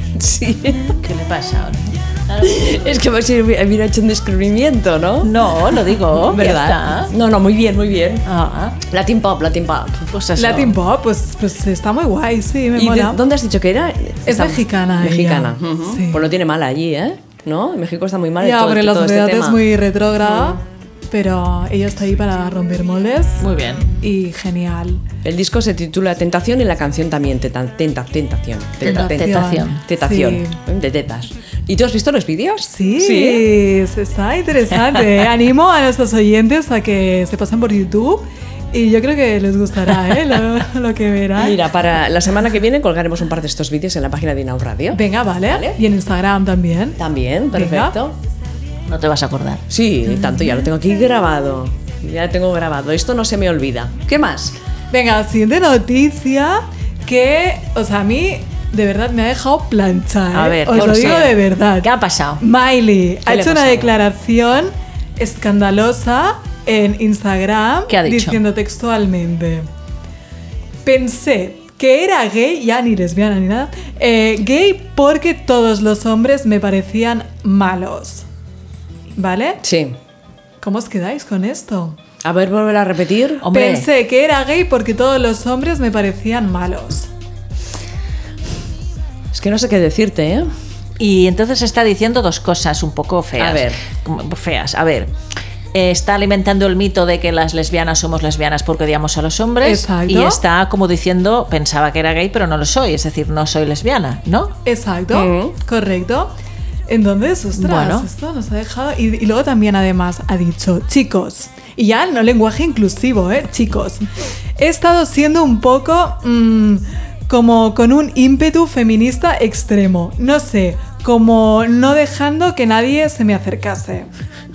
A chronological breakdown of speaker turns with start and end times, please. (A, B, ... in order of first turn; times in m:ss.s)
0:00.1-0:00.9 A
0:00.9-0:03.0 B
0:02.4-0:08.2 A
0:05.2-0:07.1 B
0:08.2-0:08.8 B
0:08.8-0:10.1 A
0:10.1-0:10.8 B
0:10.4-0:13.2 C
0:12.7-0:19.6 A
0:14.2-0:16.3 C
0:18.4-0:23.4 C
0:20.2-0:20.6 A
0:23.4-0:23.9 B
0:24.0-0:25.0 C
0:25.2-0:33.4 A
0:28.8-0:29.8 B
0:28.8-0:30.6 C
0:32.6-0:41.6 C
0:41.4-0:45.8 A
0:44.9-0:47.0 C
0:47.0-0:48.2 A
0:47.5-0:47.9 C
0:48.9-0:49.6 B
0:49.7-0:54.6 A
0:54.9-1:01.9 C
1:00.3-1:02.4 B
1:00.8-1:01.3 A
1:02.4-1:09.7 C
1:03.2-1:03.9 A
1:07.9-1:08.4 B
1:10.8-1:18.2 C
1:19.2-1:19.6 C
1:19.6-1:20.0 A
1:20.6-1:22.0 C
1:22.2-1:23.5 A
1:23.4-1:23.9 B
1:23.5-1:27.1 C
1:29.3-1:30.5 A
1:31.0-1:35.1 B
1:33.4-1:33.8 A
1:35.7-1:44.5 B
1:39.6-1:40.4 C
1:44.6-1:46.4 C
1:45.1-1:45.6 A
1:46.9-2:04.1 C
1:47.6-1:48.1 B